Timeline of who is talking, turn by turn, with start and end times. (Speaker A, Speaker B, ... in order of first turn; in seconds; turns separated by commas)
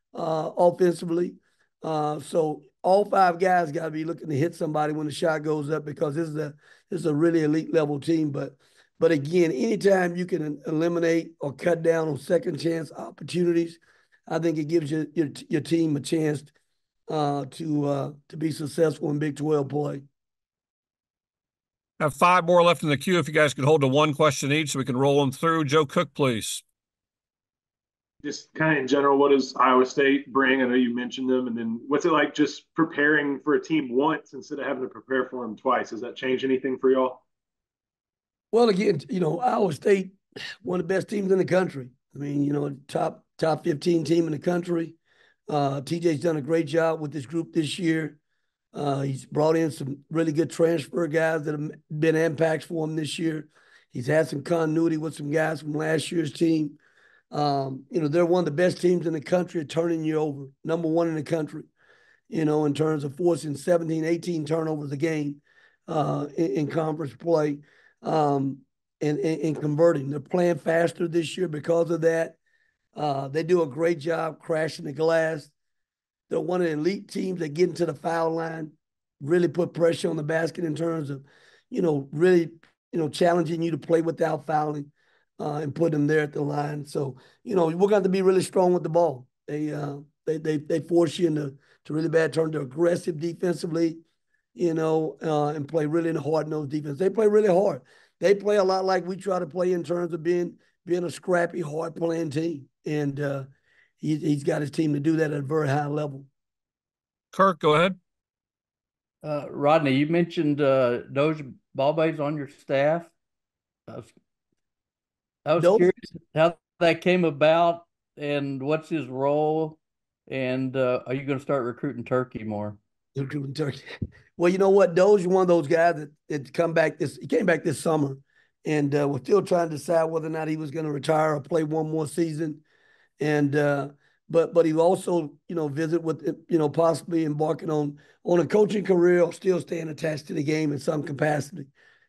Speaker A: 0.1-16.5, Speaker A: 17.1-20.0, Speaker B: 22.0-26.6, Speaker C: 28.2-37.2, Speaker A: 38.5-45.0, Speaker A: 45.5-48.2, Speaker A: 48.7-56.8, Speaker A: 57.3-61.7, Speaker A: 62.3-72.3, Speaker A: 73.0-75.5, Speaker A: 76.3-94.0, Speaker A: 94.5-103.5, Speaker A: 104.0-106.3, Speaker B: 107.3-108.0, Speaker D: 109.2-113.1, Speaker D: 115.5-122.8, Speaker A: 115.6-115.9, Speaker A: 123.2-123.8, Speaker A: 124.4-132.6, Speaker A: 133.2-141.7